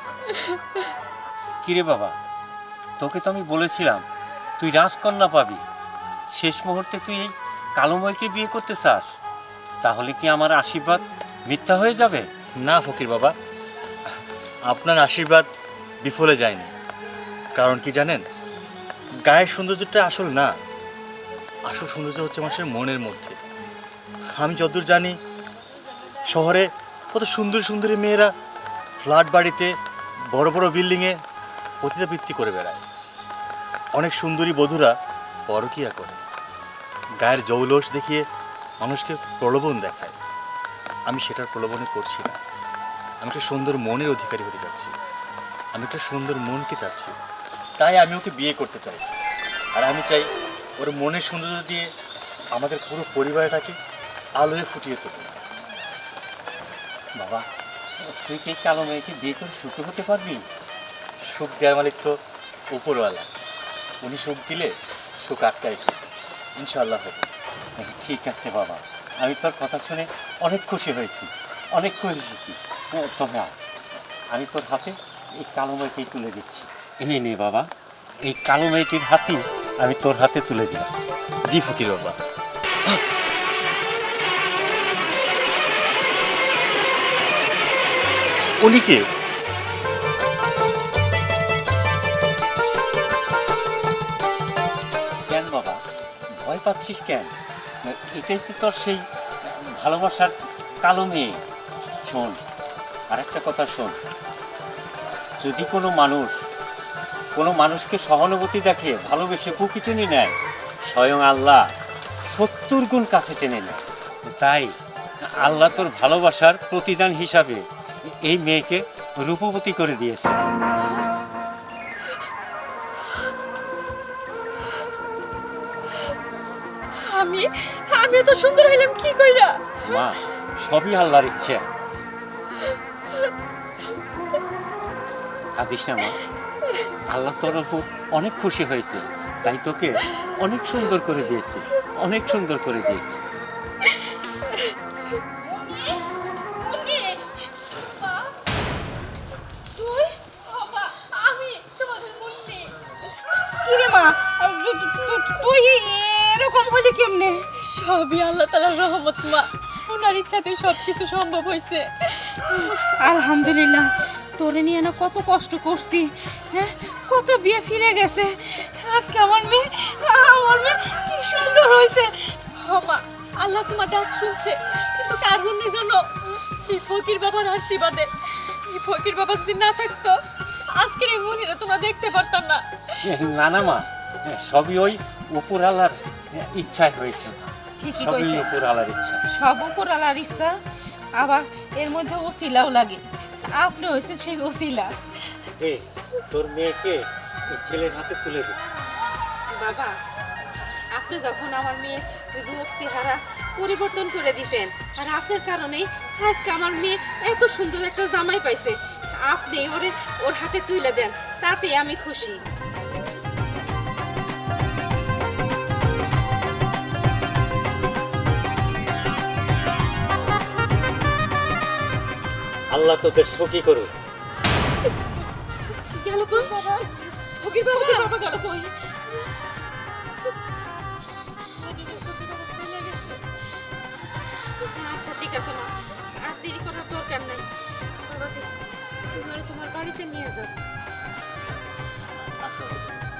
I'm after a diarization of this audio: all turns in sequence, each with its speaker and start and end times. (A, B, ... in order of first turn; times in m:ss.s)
0:00.3-0:00.8 A
0:01.6-0:02.2 B
0:03.0-0:04.0 B
0:04.6-0:05.6 B
0:06.3-0:09.1 B
0:09.8-0:12.3 B
0:12.6-0:13.4 C
0:14.7-0:15.5 C
0:16.0-0:16.7 C
0:17.6-0:18.2 C
0:19.3-0:20.5 C
0:21.7-0:23.4 C
0:24.4-0:25.2 C
0:26.3-0:28.3 C
0:29.0-0:29.7 C
0:30.3-0:31.2 C
0:31.8-0:32.8 C
0:34.0-0:35.0 C
0:35.5-0:36.2 C
0:37.2-0:38.2 C
0:38.8-0:40.2 C
0:41.1-0:42.4 C
0:43.2-0:44.9 C
0:45.7-0:47.2 C
0:47.8-0:49.0 C
0:49.8-0:51.9 C
0:52.5-0:53.8 C
0:54.4-0:55.4 C
0:57.2-0:57.5 B
0:58.0-1:00.4 B
1:01.2-1:02.2 C
1:02.7-1:03.3 C
1:04.0-1:06.0 C
1:06.6-1:07.3 C
1:07.8-1:13.6 B
1:14.3-1:17.7 B
1:18.2-1:20.9 B
1:21.5-1:22.2 C
1:28.6-1:29.0 C
1:35.3-1:37.3 B
1:37.8-1:41.4 B
1:42.0-1:42.4 B
1:43.1-1:44.0 B
1:45.4-1:46.4 B
1:47.4-1:50.4 B
1:50.9-1:51.7 B
1:52.2-2:00.4 B
2:07.0-2:10.0 A
2:09.8-2:11.7 B
2:15.6-2:16.2 B
2:17.1-2:23.2 B
2:26.6-2:27.2 A
2:27.9-2:28.3 A
2:29.8-2:30.1 D
2:30.4-2:32.8 A
2:33.6-2:37.5 D
2:37.6-2:42.4 A
2:42.5-2:52.4 D
2:52.5-3:00.2 A
3:00.7-3:03.0 A
3:03.0-3:07.4 B
3:07.8-3:08.5 D
3:07.9-3:09.2 B
3:09.3-3:10.6 D
3:11.2-3:15.4 D
3:15.6-3:18.6 B
3:19.5-3:20.0 D
3:20.9-3:32.4 D
3:42.7-3:43.9 B
3:45.7-3:46.8 D
3:46.3-3:46.9 A
3:47.4-3:48.7 D
3:47.6-3:48.1 A
3:51.6-3:53.2 A
3:54.6-3:55.7 D
3:56.2-3:57.5 D
3:58.1-3:58.5 D
3:59.1-4:00.6 D
4:02.4-4:02.8 C